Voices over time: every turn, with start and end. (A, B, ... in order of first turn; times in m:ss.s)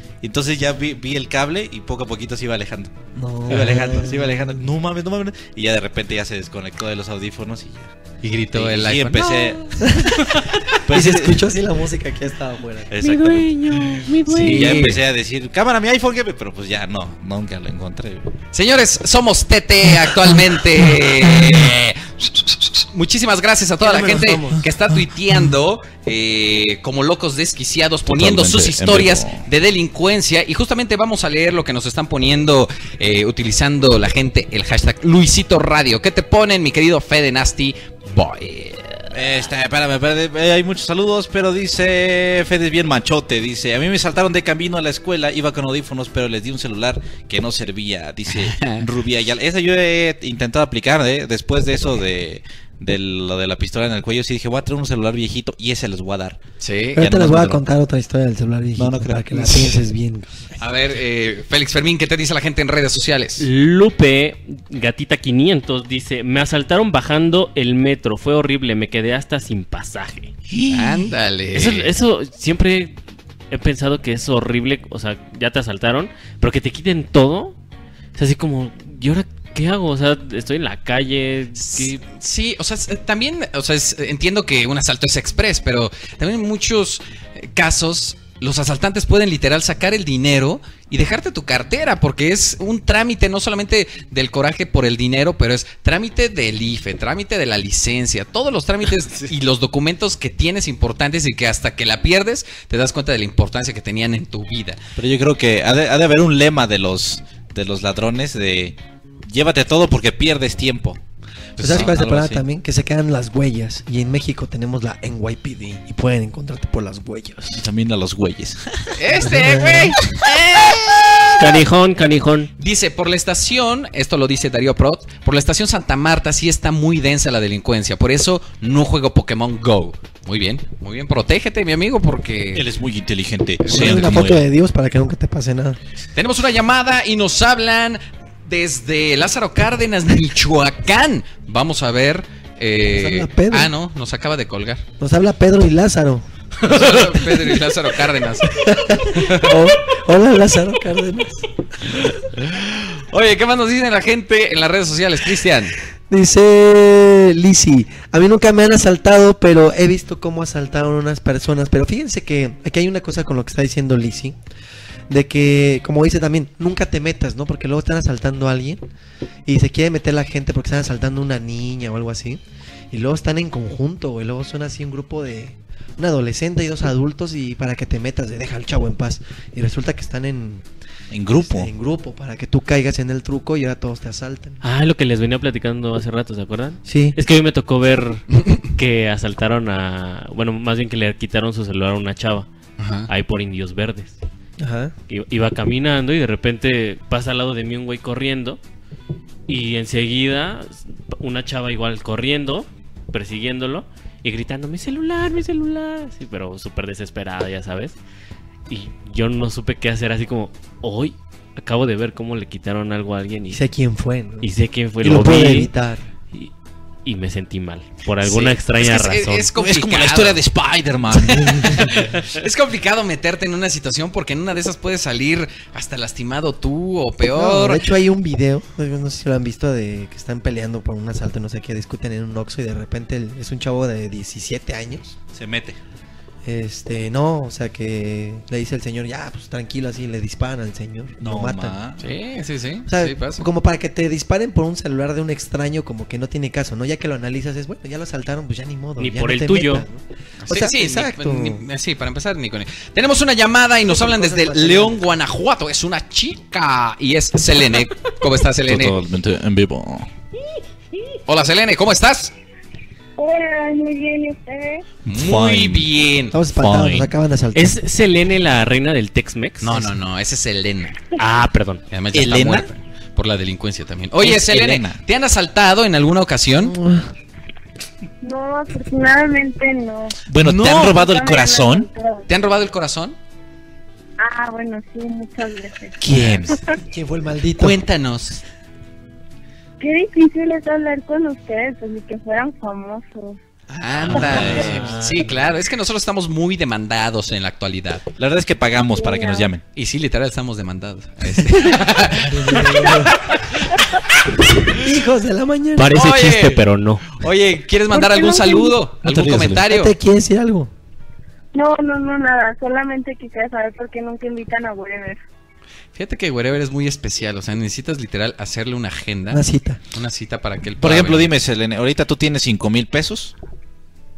0:00.2-0:02.9 A
0:03.1-0:04.6 B
0:03.5-0:07.9 A
0:08.2-0:09.4 C
0:08.5-0:09.7 A
0:09.8-0:10.2 B
0:10.9-0:11.4 A
0:10.9-0:12.9 B
0:12.9-0:18.3 A
0:13.0-0:14.9 D
0:14.3-0:15.0 C
0:18.5-0:39.5 C
0:23.8-0:24.6 B
0:28.0-0:29.4 A
0:39.1-0:56.4 A
0:48.3-0:48.9 C
0:56.6-0:57.0 C
0:57.0-1:00.3 B
0:57.0-0:57.6 A
0:58.8-0:59.7 A
1:00.6-1:03.5 C
1:03.4-1:10.3 D
1:10.7-1:11.9 C
1:11.5-1:13.0 D
1:13.5-1:17.6 D
1:18.2-1:22.0 D
1:21.6-1:44.8 C
1:45.0-1:51.0 A
1:51.6-1:52.0 C
1:51.6-1:57.6 B
1:51.6-1:52.4 A
1:57.6-1:58.9 A
1:59.0-2:01.3 C
1:59.2-2:00.0 B
2:01.4-2:02.5 D
2:02.6-2:12.6 C
2:12.6-2:14.4 A
2:13.6-2:14.1 C
2:13.6-2:15.8 B
2:16.1-2:24.8 C
2:22.9-2:23.7 B
2:25.0-2:27.1 B
2:26.6-2:28.5 C
2:28.6-2:31.5 B
2:29.1-2:29.6 C
2:32.0-2:35.8 C
2:36.1-2:44.4 B
2:45.1-2:48.9 B
2:49.5-3:00.6 B
3:01.1-3:01.7 A
3:01.4-3:04.6 B
3:04.6-3:12.5 D
3:06.9-3:07.2 B
3:12.8-3:13.1 C
3:13.1-3:14.2 D
3:14.6-3:14.9 B
3:15.1-3:18.6 D
3:19.5-3:28.0 D
3:28.7-3:33.6 D
3:33.5-3:34.5 B
3:34.4-3:35.7 D
3:35.0-3:36.1 B
3:37.0-3:39.5 D
3:38.2-3:40.5 C
3:39.6-3:41.5 A
3:41.1-3:47.8 C
3:41.3-3:42.0 B
3:47.3-3:55.1 B
3:55.3-3:55.8 A
3:56.4-4:01.8 B
4:01.2-4:02.0 A
4:02.0-4:03.4 C
4:02.9-4:11.6 B
4:09.0-4:09.8 D
4:10.4-4:19.0 C
4:13.9-4:15.0 B
4:18.7-4:20.1 A
4:21.3-4:22.3 C
4:23.2-4:24.9 E
4:25.1-4:25.9 A
4:25.1-4:26.4 C
4:26.3-4:27.8 B
4:26.5-4:27.1 A
4:27.6-4:29.9 D
4:29.6-4:31.0 C
4:31.2-4:31.8 D
4:31.9-4:36.7 C
4:32.1-4:32.7 A
4:34.2-4:35.0 A
4:36.6-4:37.1 B
4:38.2-4:40.2 E
4:40.3-4:41.9 A
4:40.4-4:41.0 C
4:40.8-4:42.3 E
4:42.3-4:43.2 C
4:44.2-4:46.7 E
4:46.0-4:46.6 A
4:46.9-4:47.8 B
4:47.6-4:48.4 C
4:49.8-4:53.4 E
4:53.7-4:58.0 C
4:54.0-4:55.0 A
4:58.2-4:59.6 A
4:58.9-4:59.5 E
4:59.7-5:03.4 C
5:02.3-5:03.1 B
5:04.8-5:06.0 B
5:05.8-5:07.1 D
5:05.9-5:06.6 C
5:07.1-5:09.9 C
5:07.9-5:08.8 E
5:09.1-5:09.5 D
5:09.1-5:10.7 B
5:11.5-5:15.2 E
5:15.9-5:19.4 C
5:19.3-5:19.8 B
5:19.9-5:21.3 C
5:20.8-5:23.3 A